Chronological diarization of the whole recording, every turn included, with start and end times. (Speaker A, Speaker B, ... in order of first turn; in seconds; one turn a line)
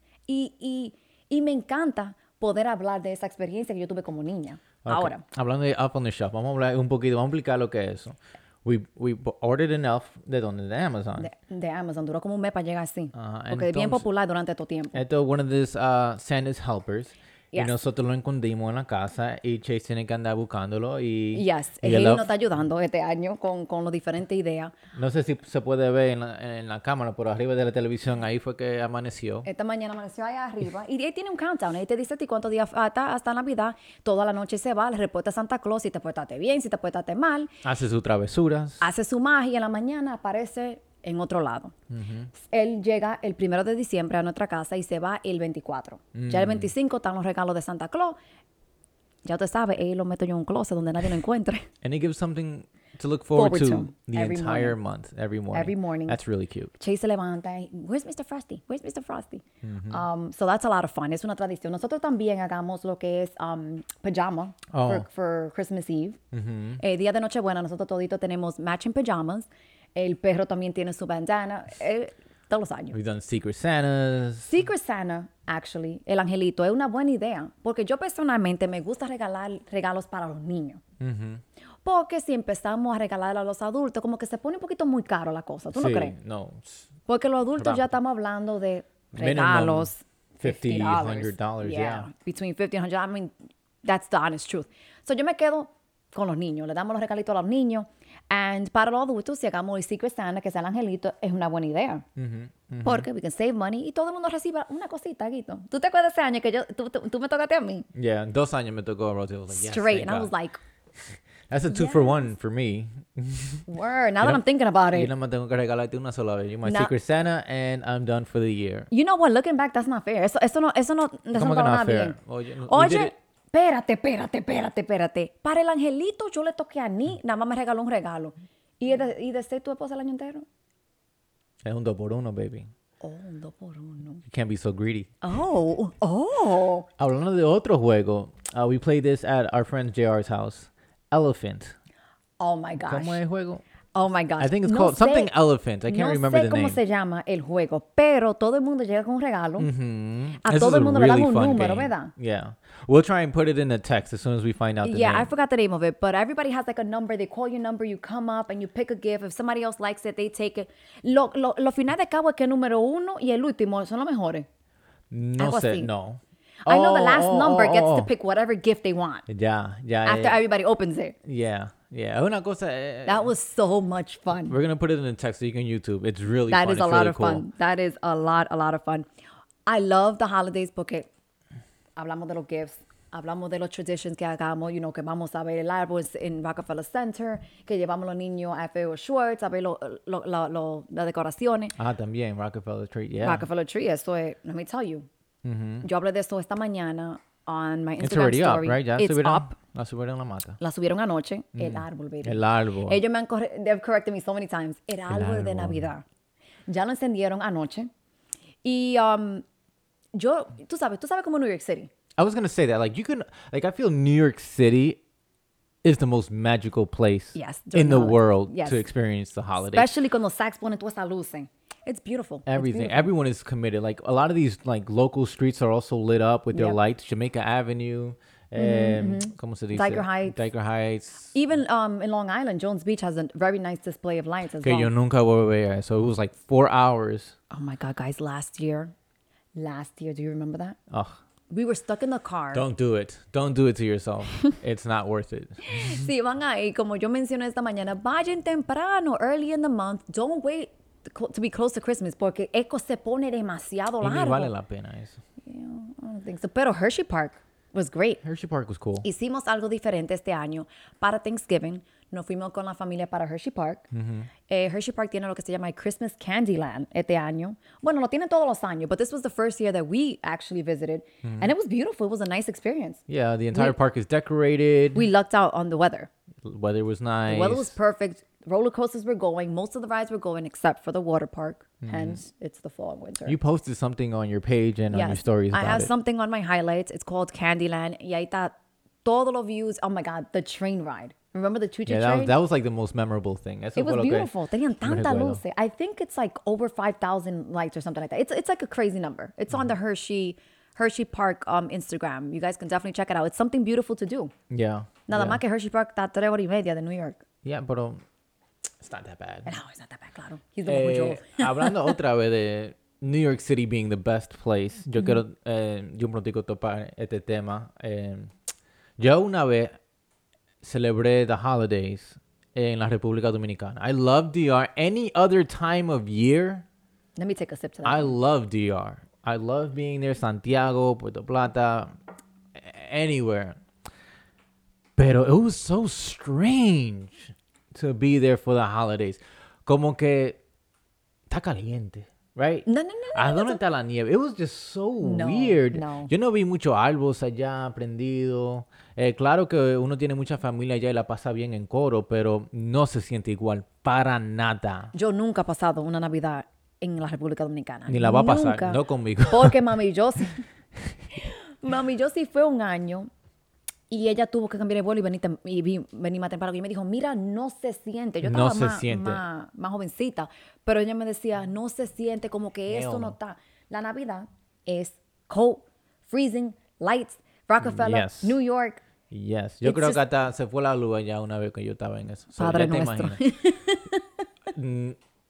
Speaker A: 0.3-5.2
Speaker B: 4.8-11.3
Speaker A: 11.2-15.0
Speaker B: 13.1-14.1
Speaker B: 14.9-22.3
Speaker A: 17.5-17.8
Speaker A: 21.3-24.7
Speaker B: 24.9-29.5
Speaker A: 29.4-37.5
Speaker B: 37.6-38.9
Speaker A: 38.8-41.7
Speaker B: 41.9-42.3
Speaker A: 42.3-48.2
Speaker B: 46.1-46.7
Speaker A: 49.2-51.7
Speaker B: 51.8-56.7
Speaker A: 53.4-54.8
Speaker A: 55.5-56.2
Speaker A: 56.8-66.2
Speaker B: 59.6-60.0
Speaker B: 64.7-65.1
Speaker B: 66.3-66.8
Speaker A: 66.8-73.0
Speaker B: 72.9-74.5
Speaker A: 74.5-80.8
Speaker B: 81.0-81.4
Speaker A: 81.8-86.2
Speaker B: 85.7-86.9
Speaker A: 87.1-93.3
Speaker B: 87.6-87.9
Speaker B: 89.1-89.9
Speaker B: 90.4-92.1
Speaker A: 93.8-102.0
Speaker B: 102.2-103.1
Speaker A: 102.8-107.9
Speaker B: 107.9-110.3
Speaker A: 109.5-110.6
Speaker B: 111.1-113.7
Speaker A: 111.7-112.2
Speaker A: 113.7-115.1
Speaker B: 114.2-118.9
Speaker A: 116.7-116.9
Speaker A: 118.9-122.2
Speaker B: 121.3-123.1
Speaker A: 122.7-130.5
Speaker B: 131.6-132.7
Speaker A: 133.0-134.2
Speaker B: 134.2-135.1
Speaker A: 135.2-136.9
Speaker B: 137.0-141.8
Speaker A: 142.4-143.2
Speaker B: 142.8-143.6
Speaker A: 143.9-145.3
Speaker B: 144.4-146.8
Speaker A: 145.9-149.7
Speaker B: 149.6-155.3
Speaker A: 150.4-152.1
Speaker A: 154.8-164.5
Speaker B: 165.1-168.1
Speaker A: 165.4-165.9
Speaker A: 166.7-169.3
Speaker B: 169.3-170.4
Speaker A: 170.1-171.2
Speaker B: 171.2-173.3
Speaker A: 173.1-174.6
Speaker B: 174.5-177.4
Speaker A: 176.5-179.1
Speaker A: 179.7-181.1
Speaker A: 182.0-191.8
Speaker B: 191.8-193.4
Speaker A: 193.2-195.1
Speaker B: 195.4-195.9
Speaker A: 195.8-199.6
Speaker B: 198.0-200.6
Speaker A: 200.6-206.0
Speaker B: 201.6-203.0
Speaker B: 205.1-205.9
Speaker A: 206.7-207.9
Speaker A: 208.6-209.4
Speaker A: 210.1-211.9
Speaker B: 212.2-215.0
Speaker B: 215.8-219.9
Speaker A: 217.3-218.8
Speaker A: 219.7-223.1
Speaker B: 222.5-231.3
Speaker A: 228.6-230.4
Speaker A: 231.3-234.9
Speaker B: 234.6-237.3
Speaker A: 237.5-238.9
Speaker A: 239.6-240.8
Speaker B: 240.9-241.2
Speaker A: 241.5-242.7
Speaker B: 242.5-246.1
Speaker A: 245.7-254.5
Speaker B: 254.0-255.2
Speaker A: 255.4-258.2
Speaker B: 258.2-259.1
Speaker A: 259.0-263.9
Speaker B: 263.9-264.3
Speaker A: 264.5-273.0
Speaker B: 271.2-271.5
Speaker B: 273.1-275.1
Speaker A: 274.9-276.1
Speaker B: 276.4-277.8
Speaker A: 277.3-283.4
Speaker B: 281.8-282.2
Speaker B: 283.3-285.9
Speaker A: 284.9-292.3
Speaker B: 291.9-294.3
Speaker A: 293.8-304.3
Speaker B: 294.8-295.4
Speaker B: 304.5-305.4
Speaker A: 305.1-307.2
Speaker B: 307.4-308.0
Speaker B: 308.8-309.5
Speaker A: 309.4-312.0
Speaker B: 310.7-318.3
Speaker B: 319.0-319.8
Speaker B: 320.6-326.6
Speaker A: 327.2-328.2
Speaker B: 327.9-331.9
Speaker B: 332.6-333.6
Speaker B: 335.0-340.4
Speaker B: 341.3-354.9
Speaker A: 342.7-343.6
Speaker A: 345.0-346.1
Speaker A: 354.9-360.4
Speaker B: 357.9-359.6
Speaker A: 361.2-363.1
Speaker A: 363.9-378.8
Speaker B: 368.2-369.2
Speaker B: 372.7-373.2
Speaker B: 377.6-378.4
Speaker B: 379.1-383.2
Speaker A: 379.6-380.0
Speaker A: 382.4-384.3
Speaker B: 384.5-385.0